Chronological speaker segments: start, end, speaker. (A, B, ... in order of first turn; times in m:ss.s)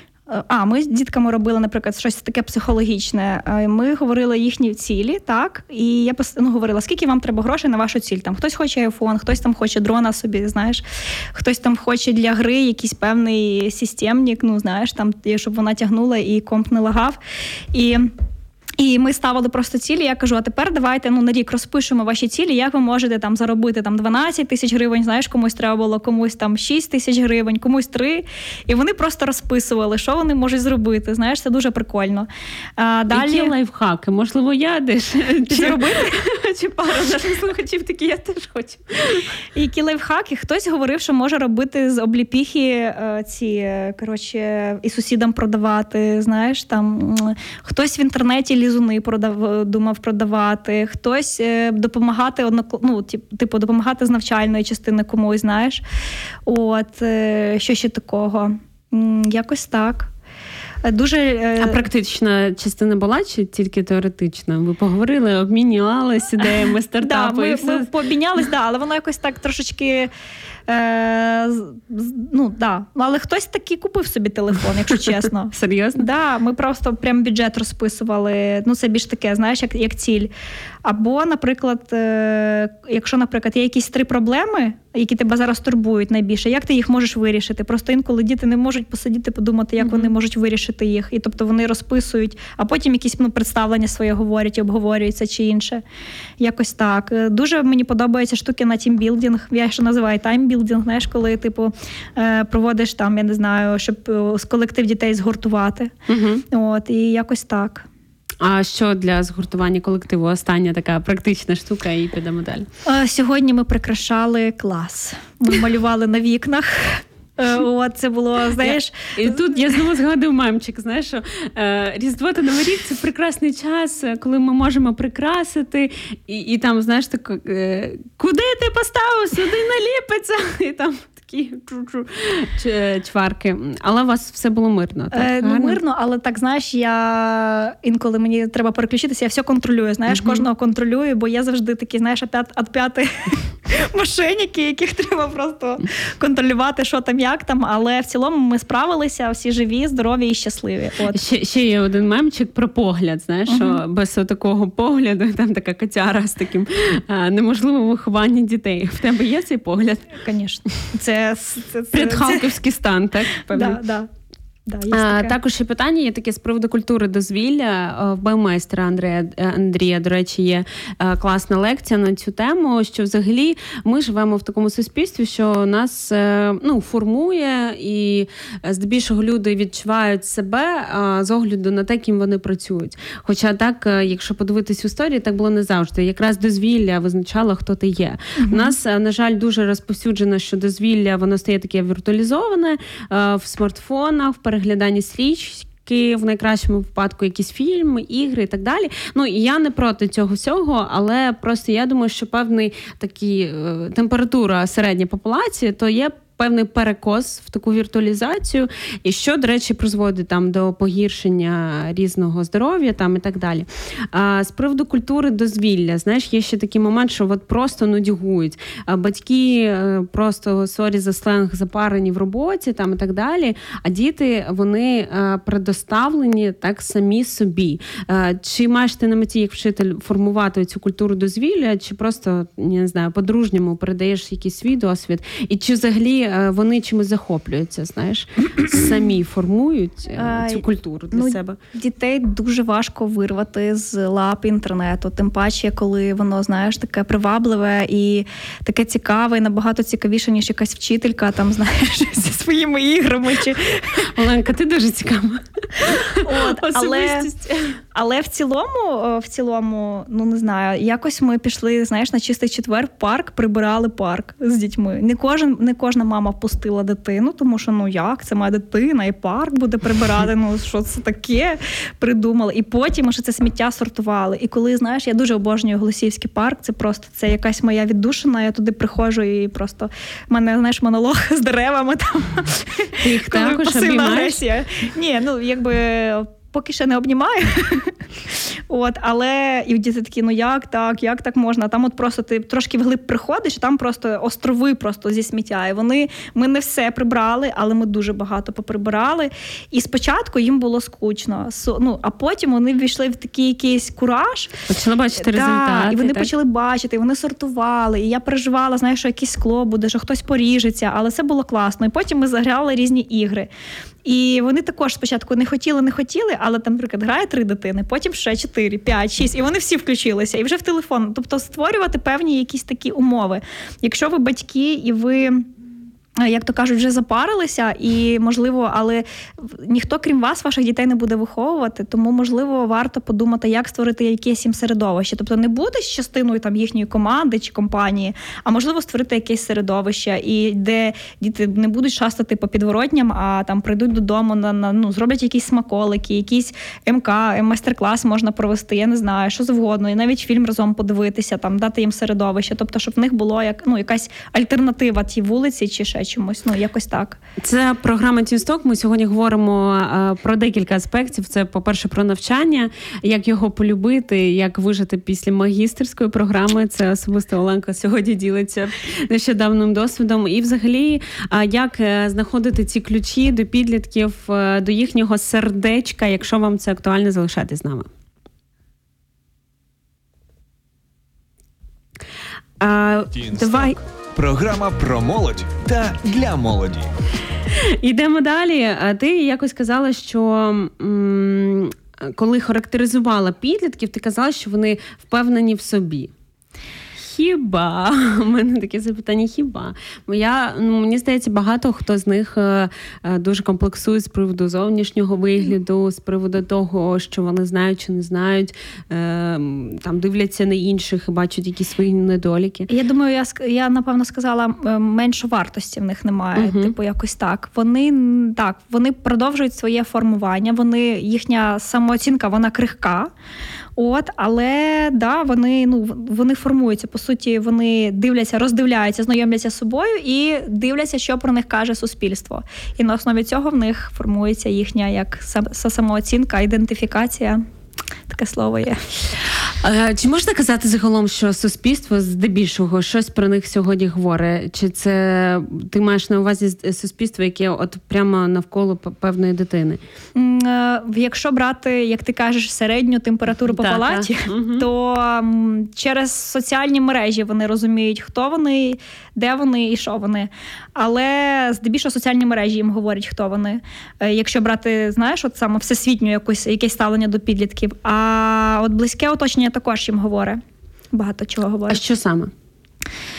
0:00.3-0:17.2 A
0:17.7-0:18.1 A
0:18.8-0:33.5 A
0:33.1-0:39.3 B
0:35.5-0:36.2 A
0:39.6-0:55.8 A
0:56.5-1:00.1 A
1:00.8-1:01.8 A
1:01.6-1:07.9 B
1:07.0-1:10.1 A
1:10.7-1:20.3 A
1:15.1-1:16.1 B
1:20.8-1:35.8 A
1:29.8-1:30.1 B
1:36.4-1:45.9 A
1:46.1-1:46.4 B
1:46.5-1:47.9 A
1:48.4-1:52.7 B
1:52.9-1:59.6 A
1:58.6-2:15.8 B
2:15.1-2:31.2 A
2:20.1-2:20.4 B
2:31.1-2:40.2 B
2:33.5-2:33.8 A
2:40.2-2:42.5 A
2:41.9-2:43.8 B
2:43.5-2:44.1 A
2:44.7-2:45.4 A
2:44.9-4:01.6 B
3:08.4-3:08.7 A
4:00.2-4:14.1 A
4:14.1-4:17.8 B
4:15.9-4:17.3 A
4:17.9-5:04.6 A
4:43.0-4:44.4 B
5:04.7-5:06.3 B
5:05.2-5:13.5 A
5:14.0-5:25.5 A
5:26.2-5:57.2 A
5:57.4-6:17.9 B
6:22.6-6:23.8 B
6:23.1-6:26.9 C
6:27.6-6:36.1 B
6:37.0-6:52.7 B
6:52.7-7:03.1 A
6:56.4-6:56.7 B
7:03.8-7:17.4 A
7:18.1-7:18.9 A
7:19.6-7:29.8 B
7:30.2-7:50.4 A
7:33.4-7:34.7 B
7:50.9-7:51.8 A
7:51.7-7:52.3 B